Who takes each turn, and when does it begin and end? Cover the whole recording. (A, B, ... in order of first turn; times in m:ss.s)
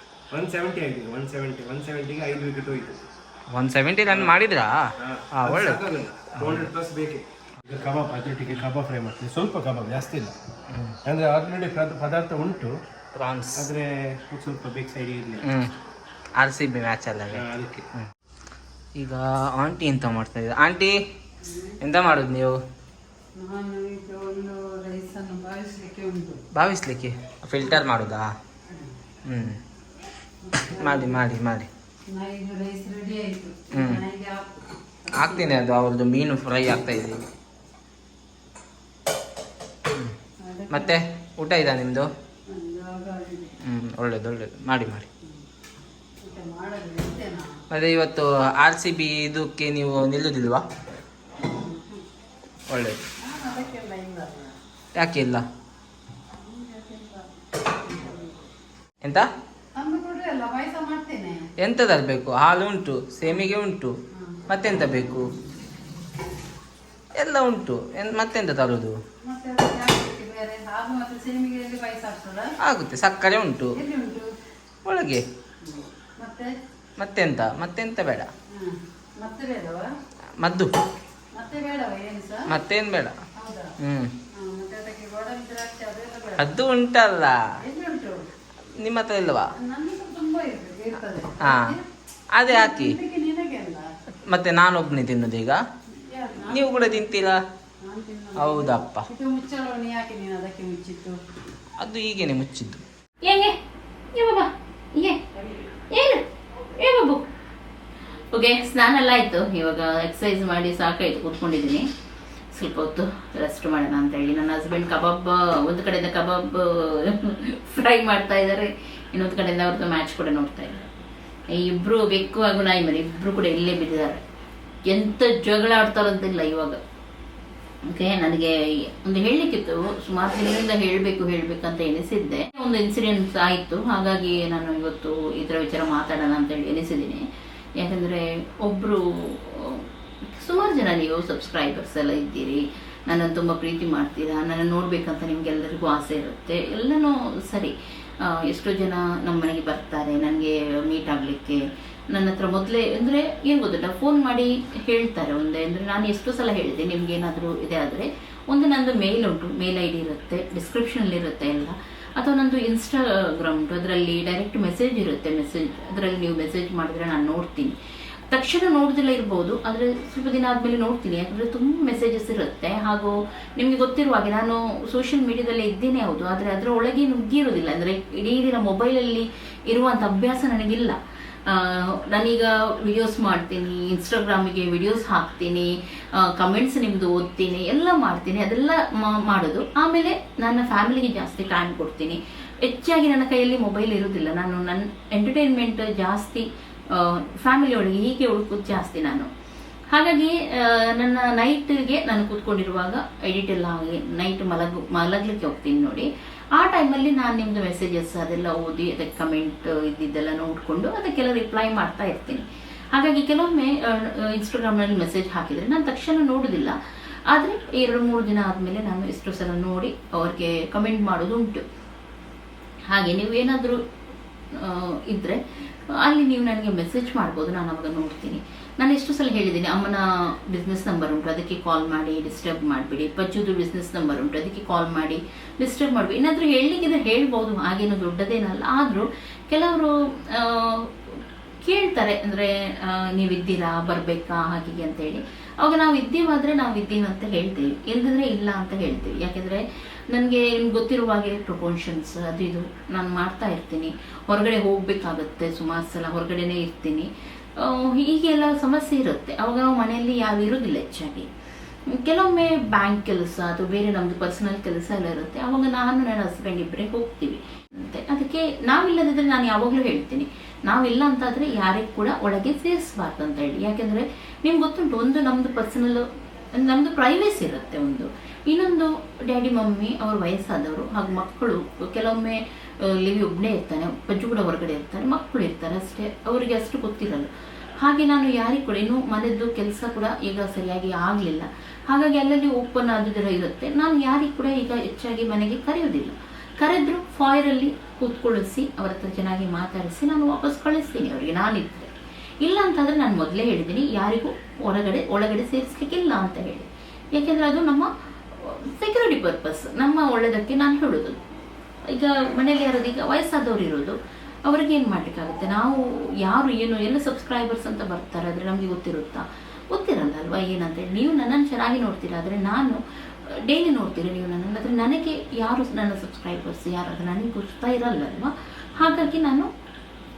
0:00.3-0:03.0 A
0:03.5-0:05.8 B
0:05.0-0:10.3 A
0:06.4-0:06.7 B
0:11.1-0:12.8 A
0:13.2-0:13.7 B
0:13.6-0:15.5 A
0:15.4-0:15.7 B
0:16.4-0:17.4 B
0:17.3-0:17.9 A
0:19.0-0:21.0 B
0:21.5-0:21.7 C
0:21.8-0:22.6 B
0:23.4-0:26.4 C
0:26.6-0:28.3 B
0:29.3-0:29.6 B
0:30.4-0:31.2 C
0:30.8-0:31.7 B
0:32.1-0:34.5 C
0:33.7-0:34.0 B
0:35.0-0:35.6 C
0:35.2-0:37.2 B
0:40.4-0:41.0 C
0:40.7-0:42.1 B
0:42.5-0:43.5 C
0:43.7-0:45.1 B
0:46.2-0:47.5 C
0:47.7-0:50.6 B
0:51.6-0:52.0 C
0:52.7-0:53.0 B
0:53.2-0:54.5 C
0:55.0-0:55.4 B
0:56.4-0:57.3 C
0:57.8-0:58.4 C
0:59.8-1:01.4 C
1:01.6-1:04.0 B
1:04.5-1:05.3 B
1:07.2-1:09.0 B
1:09.2-1:12.5 C
1:12.6-1:13.8 B
1:13.7-1:14.3 C
1:14.8-1:15.2 B
1:15.6-1:16.6 C
1:17.0-1:18.3 B
1:18.6-1:19.9 C
1:20.4-1:20.7 B
1:21.4-1:22.6 C
1:22.5-1:23.2 B
1:23.4-1:23.7 C
1:23.8-1:24.1 B
1:24.4-1:26.5 C
1:26.4-1:27.4 B
1:27.6-1:28.3 C
1:28.8-1:29.5 B
1:29.6-1:31.8 C
1:31.4-1:31.8 B
1:32.4-1:33.0 B
1:32.4-1:33.9 C
1:34.3-1:35.6 B
1:36.1-1:37.1 C
1:36.5-1:37.4 B
1:37.8-1:41.2 C
1:38.4-1:39.1 B
1:41.8-1:42.8 B
1:43.2-1:43.6 D
1:44.1-1:45.2 D
1:45.9-1:46.2 D
1:46.8-1:47.3 D
1:48.3-1:51.9 D
1:52.6-2:00.9 D
2:01.5-2:04.2 D
2:04.9-2:06.8 D
2:07.9-2:17.2 D
2:17.8-2:27.7 D
2:28.2-2:31.6 D
2:32.1-2:47.8 D
2:48.3-3:19.3 D
3:19.9-3:36.8 D
3:37.3-3:41.6 D
3:42.9-3:43.8 D
3:44.6-3:45.4 D
3:45.9-4:21.3 D
4:21.9-4:47.3 D
4:47.8-5:01.9 D
5:02.4-5:11.2 D
5:11.9-5:22.8 D
5:23.4-5:29.5 D